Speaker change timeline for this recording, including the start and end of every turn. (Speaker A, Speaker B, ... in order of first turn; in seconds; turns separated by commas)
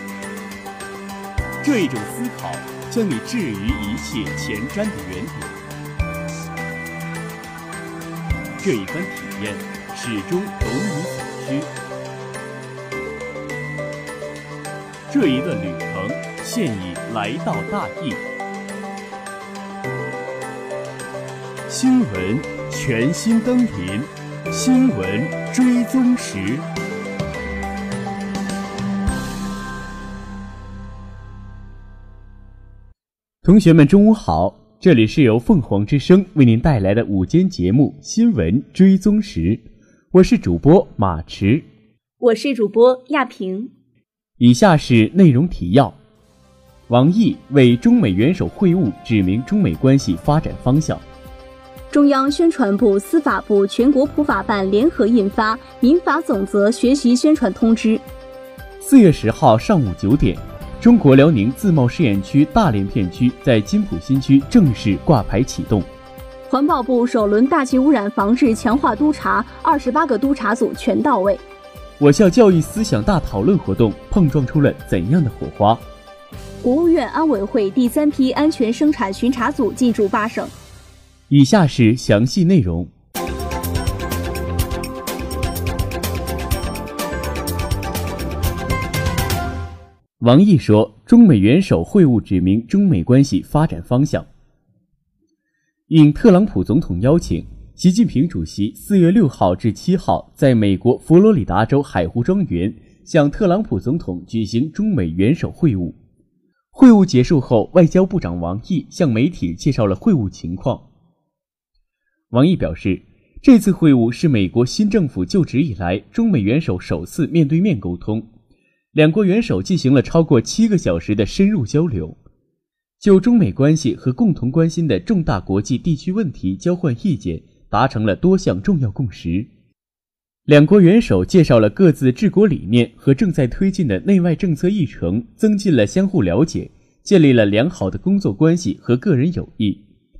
Speaker A: 1.6-5.6, Speaker A: 8.6-11.7, Speaker A: 15.1-18.2, Speaker A: 21.7-26.7, Speaker A: 33.4-41.6, Speaker B: 42.2-43.7, Speaker A: 44.4-46.0, Speaker A: 46.9-51.0, Speaker B: 51.9-58.0, Speaker A: 58.8-65.9, Speaker B: 66.5-71.4, Speaker A: 72.0-75.8, Speaker B: 76.6-80.5, Speaker A: 81.3-82.9, Speaker A: 90.2-94.3, Speaker A: 95.9-106.0, Speaker A: 106.7-110.9, Speaker A: 112.3-118.3, Speaker A: 118.9-122.2, Speaker A: 123.0-129.5, Speaker A: 130.5-139.8